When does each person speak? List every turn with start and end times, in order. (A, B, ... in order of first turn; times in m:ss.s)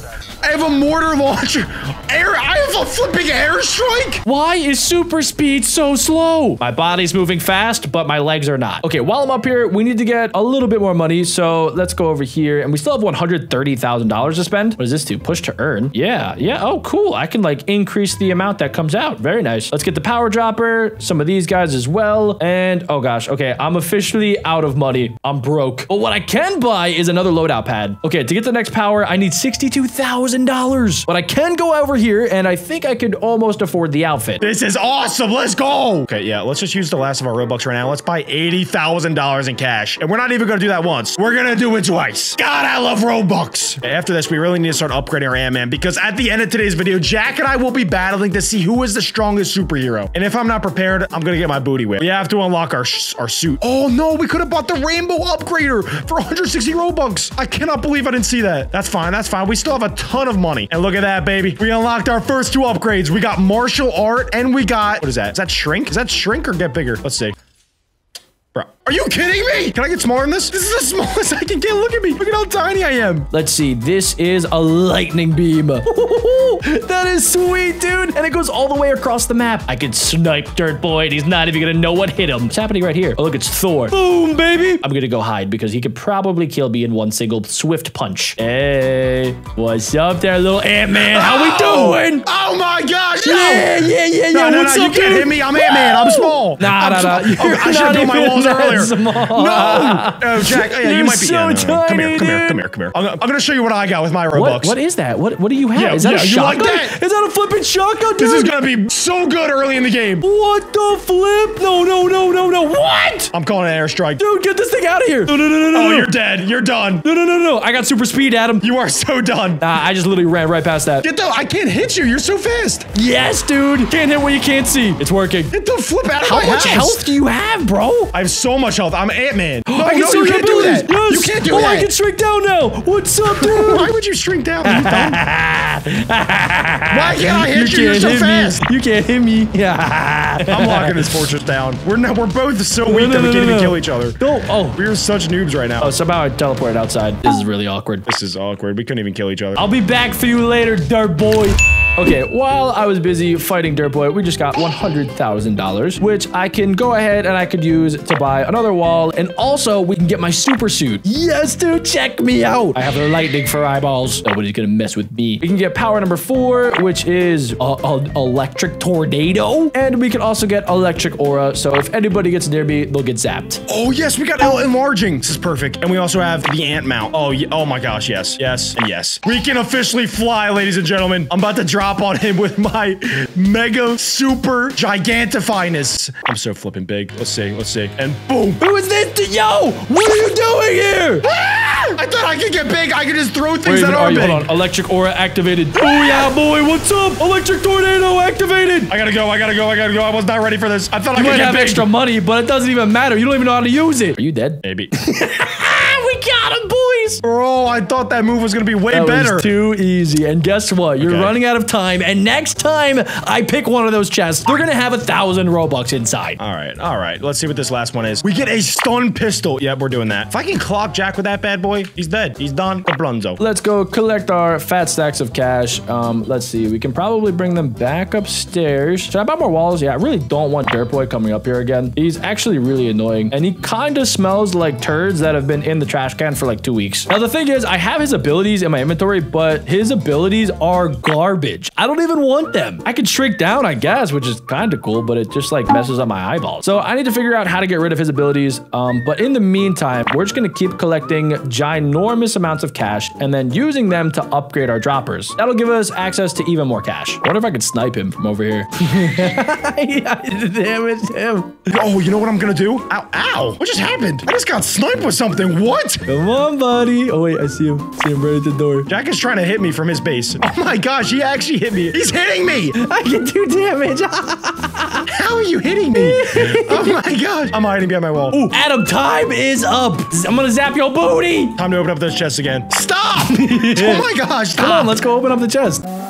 0:00.4-0:04.2 A
0:04.2-0:34.4 B
0:34.4-1:07.4 A
1:08.5-1:13.3 A
1:13.3-1:32.2 B
1:30.9-1:44.8 A
1:33.2-1:42.6 B
1:44.3-1:48.5 B
1:45.8-1:47.0 A
1:48.2-1:50.2 A
1:50.2-1:53.3 B
1:53.3-1:54.2 A
1:54.2-1:56.1 B
1:55.7-1:57.0 A
1:57.0-1:58.7 B
1:58.6-1:59.6 A
1:59.6-2:01.1 B
2:01.0-2:02.9 A
2:02.9-2:05.5 B
2:05.5-2:07.0 A
2:06.2-2:08.1 B
2:08.1-2:11.9 A
2:09.7-2:13.9 B
2:13.3-2:15.2 A
2:14.6-2:21.2 B
2:16.9-2:18.6 A
2:20.5-2:24.2 A
2:22.9-2:24.8 B
2:24.7-2:26.0 A
2:25.8-2:28.1 B
2:28.1-2:29.7 A
2:29.6-2:53.6 B
2:53.7-3:08.6 A
3:08.6-3:11.3 B
3:11.3-3:14.5 A
3:13.6-3:18.9 B
3:15.8-3:16.3 A
3:18.9-3:21.9 A
3:21.2-3:27.2 B
3:24.6-3:24.9 A
3:27.2-3:29.5 A
3:28.9-3:36.4 B
3:31.0-3:31.4 A
3:36.4-3:43.4 A
3:43.4-4:21.7 B
4:21.7-4:26.0 A
4:26.1-4:28.9 B
4:28.9-4:32.8 A
4:32.8-4:35.1 B
4:35.1-4:38.4 A
4:36.0-4:37.0 B
4:38.3-4:41.6 B
4:41.6-4:44.9 A
4:43.2-4:45.8 B